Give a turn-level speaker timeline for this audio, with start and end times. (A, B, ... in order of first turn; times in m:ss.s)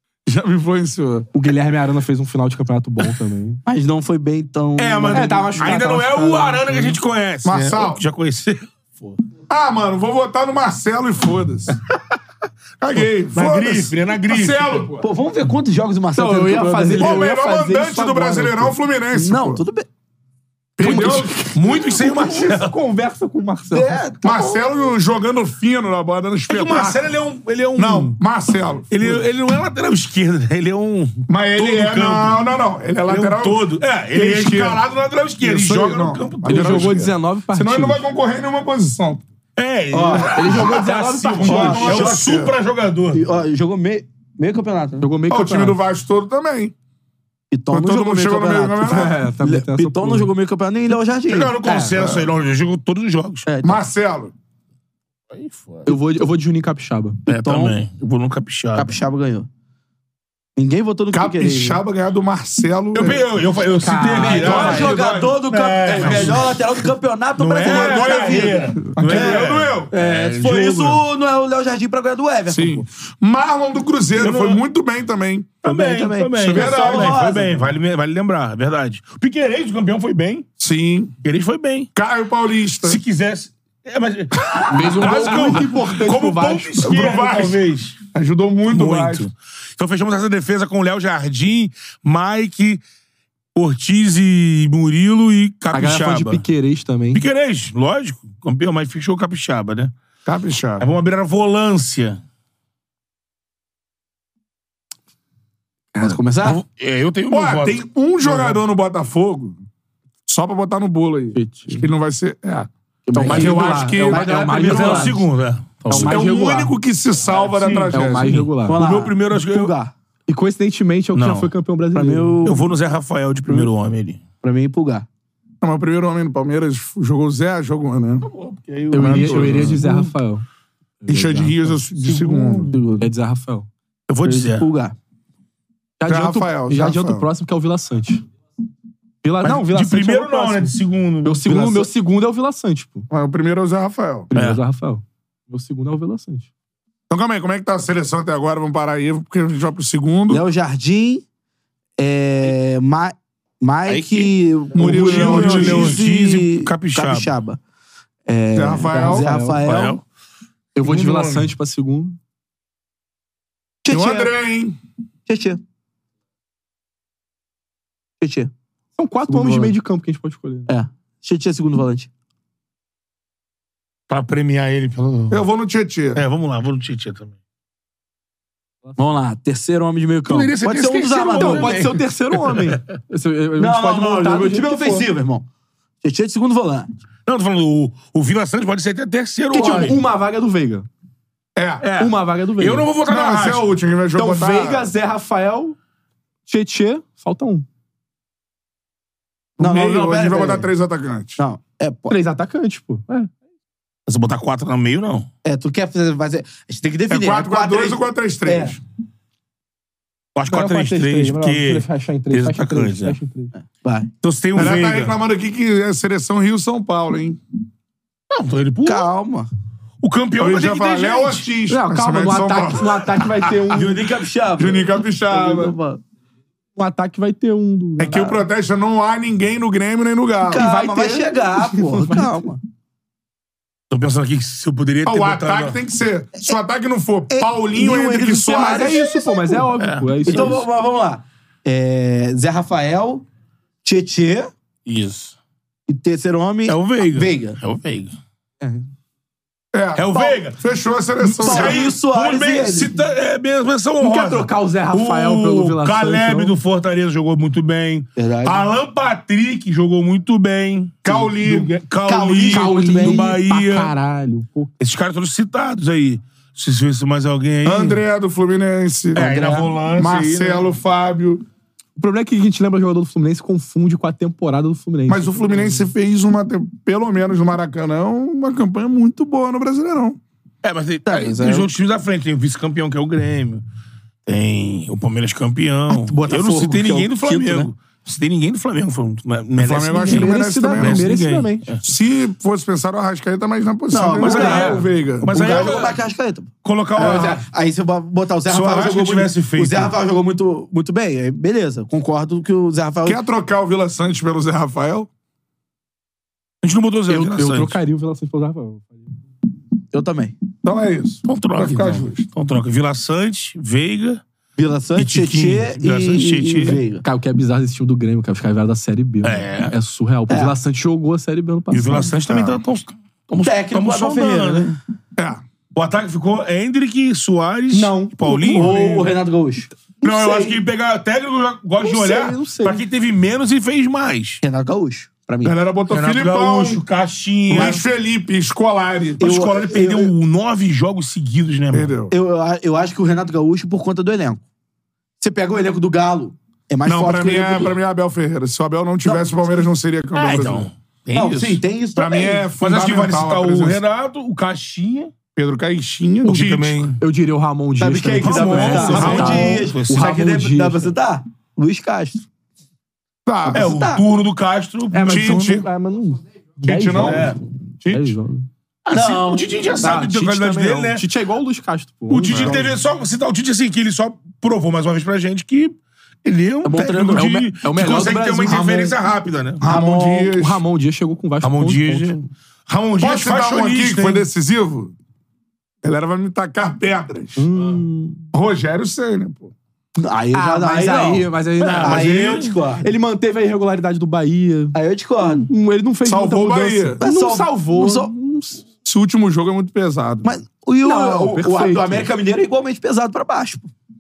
0:00.3-0:01.3 A
0:01.3-0:03.6 B
0:03.7-0:05.8 C
0:04.8-0:09.2 D
0:05.1-0:07.0 B
0:07.4-0:08.0 A
0:09.5-0:11.8 A
0:12.8-0:15.1 A
0:13.0-0:14.9 D
0:15.0-0:17.3 C
0:16.2-0:18.8 B
0:17.0-0:19.6 A
0:19.1-0:19.9 C
0:20.8-0:21.5 A
0:20.8-0:24.0 B
0:20.8-0:22.7 D
0:23.7-0:24.6 C
0:24.2-0:27.0 A
0:26.5-0:28.2 D
0:27.8-0:29.2 A
0:28.9-0:32.4 D
0:31.3-0:34.8 A
0:33.1-0:37.0 D
0:35.4-0:39.3 A
0:36.4-0:38.0 B
0:39.6-0:43.2 D
0:39.9-0:40.6 C
0:40.2-0:42.1 B
0:41.4-0:42.5 A
0:41.5-0:42.3 C
0:43.1-0:45.1 C
0:45.0-0:45.8 B
0:45.3-0:46.7 A
0:47.5-0:51.6 C
0:47.7-0:49.2 A
0:48.8-0:50.3 B
0:51.3-0:53.5 D
0:51.9-0:52.3 A
0:53.5-0:53.8 C
0:53.6-0:54.3 A
0:55.3-0:55.9 D
0:55.9-0:57.2 B
0:57.3-0:59.0 D
0:57.3-0:57.8 C
0:58.8-0:59.5 C
1:00.6-1:01.8 C
1:01.1-1:03.3 A
1:02.9-1:06.6 D
1:03.8-1:04.9 B
1:04.1-1:12.9 C
1:04.3-1:05.4 A
1:06.0-1:06.4 A
1:07.4-1:11.0 D
1:07.6-1:09.9 A
1:12.5-1:15.6 A
1:14.2-1:14.6 D
1:15.6-1:17.5 C
1:15.6-1:20.5 D
1:16.4-1:17.2 A
1:20.6-1:21.1 A
1:21.2-1:21.9 D
1:22.0-1:23.0 A
1:22.8-1:28.0 D
1:24.5-1:25.6 A
1:24.7-1:27.0 B
1:26.8-1:27.6 A
1:28.1-1:29.3 A
1:28.7-1:32.8 D
1:33.6-1:36.4 D
1:35.7-1:37.2 B
1:37.1-1:39.9 D
1:40.3-1:40.9 A
1:40.8-1:42.2 D
1:46.0-1:46.6 C
1:46.4-1:48.6 D
1:47.3-1:49.6 A
1:50.3-1:54.7 A
1:51.4-1:51.9 B
1:53.1-1:55.2 C
1:53.1-1:55.2 B
1:54.5-1:56.2 D
1:55.9-1:56.8 B
1:55.9-1:58.5 A
1:57.3-1:59.7 D
1:57.9-1:58.8 B
1:58.6-1:59.9 C
2:00.3-2:02.4 B
2:01.1-2:01.5 D
2:01.9-2:02.7 C
2:02.4-2:04.2 D
2:04.4-2:05.1 C
2:05.6-2:08.3 A
2:08.3-2:09.8 D
2:08.9-2:10.5 B
2:08.9-2:09.8 A
2:11.0-2:11.8 B
2:11.1-2:12.8 A
2:12.0-2:13.1 C
2:13.0-2:13.7 B
2:14.1-2:14.7 D
2:14.2-2:15.0 C
2:16.0-2:18.2 B
2:16.0-2:17.3 A
2:19.2-2:20.7 B
2:19.4-2:21.4 D
2:21.2-2:23.1 B
2:21.4-2:21.9 C
2:23.1-2:24.3 A
2:24.3-2:26.5 B
2:24.3-2:24.6 D
2:27.1-2:30.4 A
2:30.3-2:31.2 C
2:32.0-2:37.6 C
2:33.9-2:37.3 D
2:34.8-2:36.0 A
2:38.3-2:40.0 C
2:38.5-2:39.3 A
2:38.9-2:39.6 B
2:39.6-2:40.0 D
2:40.8-2:42.2 B
2:40.8-2:41.4 A
2:43.8-2:44.3 C
2:43.9-2:44.8 A
2:45.3-2:45.6 C
2:48.2-2:48.5 C
2:49.0-2:50.7 B
2:49.3-2:49.8 C
2:50.7-2:52.1 C
2:54.1-2:55.4 D
2:55.3-2:56.2 A
2:56.2-2:57.4 D
2:59.0-3:01.7 C
3:00.3-3:02.8 D
3:01.4-3:05.1 B
3:03.6-3:05.5 C
3:06.0-3:06.9 C
3:07.3-3:10.0 D
3:09.5-3:10.9 B
3:09.6-3:10.0 C
3:11.6-3:11.9 A
3:11.8-3:13.7 D
3:12.0-3:12.9 B
3:13.0-3:14.9 A
3:14.2-3:15.8 B
3:16.5-3:17.7 B
3:19.6-3:21.4 A
3:19.6-3:20.7 C
3:21.4-3:22.2 C
3:22.1-3:23.3 B
3:24.1-3:25.3 D
3:25.4-3:28.8 C
3:27.1-3:28.8 A
3:30.4-3:33.2 D
3:30.5-3:33.5 B
3:33.8-3:34.1 C
3:34.2-3:35.2 D
3:34.5-3:37.4 A
3:38.3-3:39.1 D
3:38.8-3:39.5 C
3:40.0-3:41.5 D
3:40.4-3:43.8 A
3:41.7-3:44.0 B
3:43.7-3:46.0 C
3:44.6-3:45.7 A
3:46.8-3:48.4 B
3:48.0-3:50.7 A
3:50.5-3:52.6 C
3:50.5-3:52.4 B
3:53.9-3:55.8 D
3:55.0-3:59.0 A
3:57.3-3:59.6 C
3:58.5-4:00.6 B
3:59.8-4:00.6 D
4:00.3-4:03.2 C
4:03.8-4:04.5 C
4:04.9-4:05.4 D
4:05.9-4:07.6 C
4:06.7-4:08.2 D
4:09.7-4:11.9 A
4:10.0-4:10.6 D
4:11.4-4:23.9 D
4:11.4-4:13.0 C
4:14.0-4:16.5 B
4:18.2-4:18.7 C
4:21.0-4:21.8 A
4:22.1-4:23.3 C
4:22.5-4:24.7 B
4:24.8-4:28.0 D
4:27.6-4:31.4 A
4:29.1-4:30.7 D
4:32.0-4:35.9 B
4:35.1-4:40.2 A
4:40.6-4:43.6 D
4:41.0-4:41.7 C
4:44.3-4:51.8 D
4:45.9-4:47.7 C
4:49.6-4:51.1 A
4:50.1-4:51.8 B
4:51.8-4:55.7 A
4:53.9-5:03.2 C
4:54.2-4:56.0 D
4:56.6-4:57.5 D
4:58.5-5:00.0 D
5:03.0-5:05.1 A
5:06.6-5:07.8 D
5:07.1-5:09.0 B
5:09.9-5:10.4 C
5:10.6-5:12.3 A
5:11.2-5:14.2 D
5:14.6-5:17.0 C
5:15.0-5:16.8 D
5:17.0-5:22.1 B
5:19.2-5:19.7 D
5:21.7-5:24.7 D
5:22.3-5:22.6 A
5:23.4-5:24.8 C
5:25.2-5:25.4 A
5:25.7-5:29.1 D
5:27.7-5:28.7 B
5:28.5-5:29.7 C
5:30.0-5:30.6 B
5:30.0-5:34.4 D
5:31.8-5:32.8 B
5:34.4-5:35.6 C
5:35.4-5:36.8 A
5:35.9-5:37.8 D
5:37.5-5:39.2 A
5:37.5-5:37.8 C
5:39.2-5:40.1 C
5:39.2-5:42.0 D
5:41.7-5:42.1 A
5:42.1-5:44.4 C
5:45.2-5:47.8 C
5:46.9-5:50.7 A
5:49.0-5:49.4 C
5:50.2-5:51.6 D
5:51.1-5:52.5 C
5:52.0-5:53.8 A
5:52.6-5:55.1 D
5:55.4-5:56.9 A
5:56.2-5:57.0 D
5:57.0-6:00.9 B
5:57.8-6:02.3 C
5:58.2-6:00.2 D
5:58.8-5:59.5 A
6:03.3-6:03.7 A
6:03.5-6:04.0 C
6:03.5-6:05.4 D
6:04.9-6:08.5 B
6:05.0-6:05.7 A
6:06.6-6:08.1 A
6:07.0-6:07.4 D
6:08.8-6:11.0 D
6:08.9-6:09.8 C
6:09.8-6:12.7 B
6:12.1-6:19.6 D
6:16.6-6:17.3 C
6:17.0-6:18.7 B
6:18.5-6:18.9 A
6:19.6-6:20.6 A
6:19.6-6:20.4 C
6:20.3-6:22.2 B
6:21.4-6:24.3 D
6:23.0-6:24.9 A
6:25.8-6:27.4 A
6:27.4-6:28.2 B
6:28.3-6:29.5 A
6:30.0-6:32.8 C
6:30.3-6:32.1 B
6:31.6-6:32.5 D
6:32.8-6:38.6 B
6:34.7-6:35.5 C
6:36.0-6:37.0 A
6:37.0-6:38.1 C
6:38.8-6:40.3 A
6:40.2-6:43.7 C
6:40.8-6:42.1 B